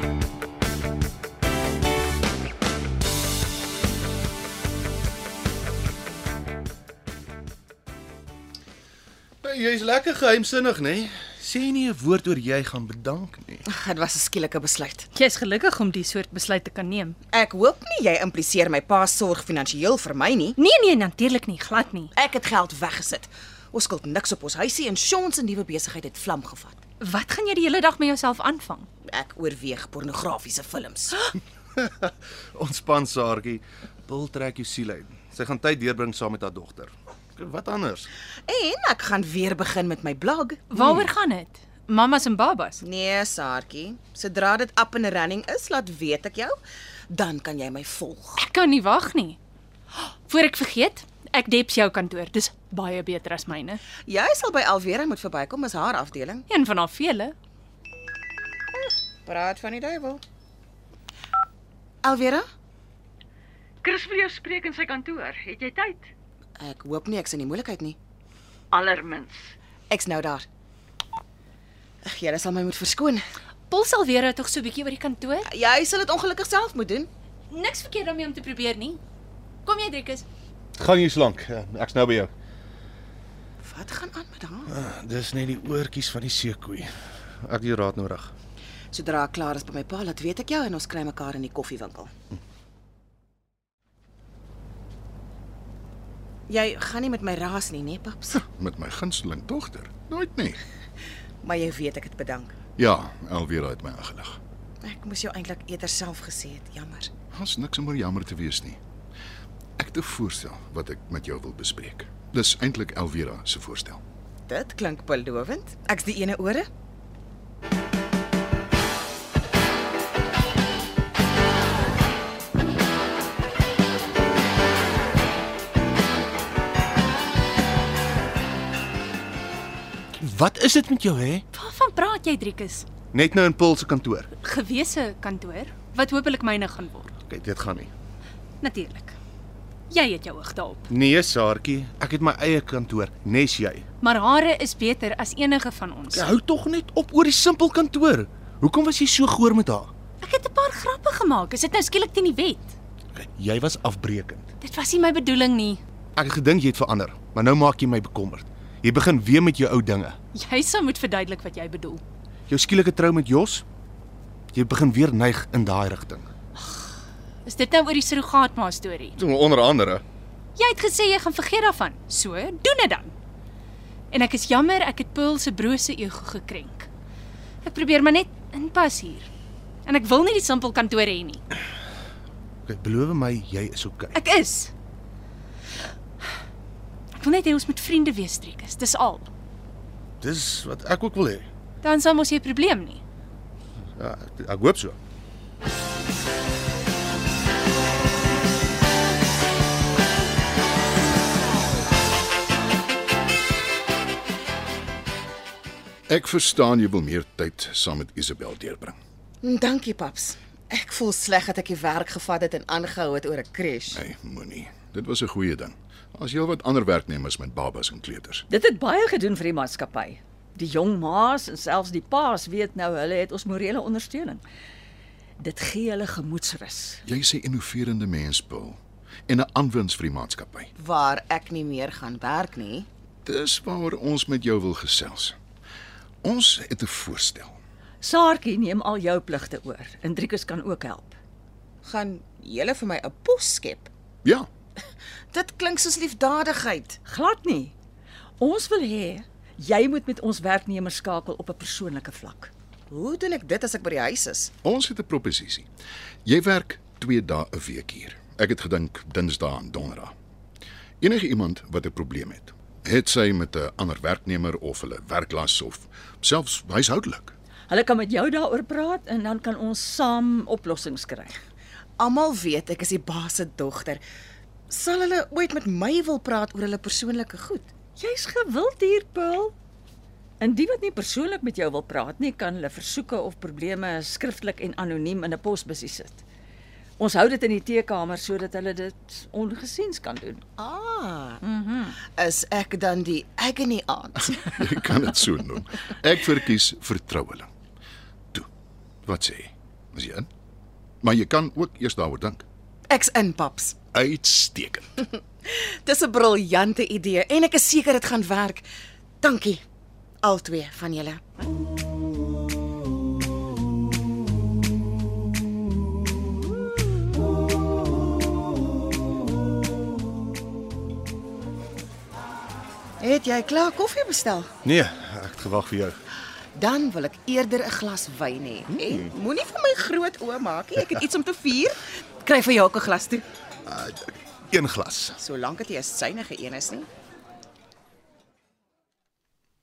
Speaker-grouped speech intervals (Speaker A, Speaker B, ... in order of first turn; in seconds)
Speaker A: 9.4-13.7, 31.8-38.1, 80.8-82.3, 84.7-88.3, 130.2-131.4, 133.1-134.3, 137.3-137.9, 140.9-143.8, 146.1-149.9, 153.2-154.5, 156.2-160.2, 162.5-163.7, 164.5-166.3, 169.2-170.0, 182.7-184.2, 190.2-191.5, 194.0-195.0, 324.6-326.0, 333.7-335.2
Speaker B: 13.7-15.1, 17.3-20.6, 22.1-26.8, 29.1-31.2, 38.5-40.9, 42.8-48.4, 54.1-56.5, 58.8-60.2, 62.0-62.5, 66.6-68.0, 69.9-70.5, 72.0-73.2, 75.5-77.1, 83.6-84.7, 88.9-92.1, 96.5-98.4, 101.4-102.5, 104.8-107.1, 114.5-116.7, 209.4-214.0, 230.8-232.9, 241.8-243.9, 245.3-247.0, 252.9-254.5, 272.0-274.0, 274.7-277.7, 290.6-291.4, 292.1-294.6, 302.9-303.8, 305.4-308.7, 309.2-309.6, 310.2-311.2, 323.0-324.5, 326.6-333.3, 335.2-336.9
Speaker C: 15.2-17.2, 20.6-22.1, 27.0-28.9, 40.7-42.8, 48.4-49.4, 50.3-53.8, 56.5-57.4, 73.7-75.5, 77.5-79.0, 79.7-80.2, 131.5-132.9, 134.4-137.2, 138.6-139.2, 139.9-140.9, 144.0-146.4, 150.2-152.7, 154.6-155.8, 160.3-162.0, 166.6-166.9, 167.4-169.2, 170.6-173.1, 174.1-176.9, 177.6-179.3, 179.8-181.4, 184.2-184.7, 187.2-189.3, 191.8-193.0
Speaker D: 63.8-66.1, 68.7-69.5, 218.5-224.4, 225.4-227.0, 238.0-241.2, 247.1-247.7, 248.4-252.5, 267.7-271.4, 278.0-279.5, 280.4-286.2, 287.0-290.4, 291.4-292.0
Speaker E: 98.3-100.6, 102.8-104.4, 107.3-108.8, 109.8-114.0, 206.1-209.0, 213.9-218.5, 227.1-230.7, 233.2-235.4, 236.2-237.6, 254.6-255.7, 256.2-260.1, 261.0-267.4, 294.3-297.5, 299.1-300.3, 301.0-302.5, 303.9-304.9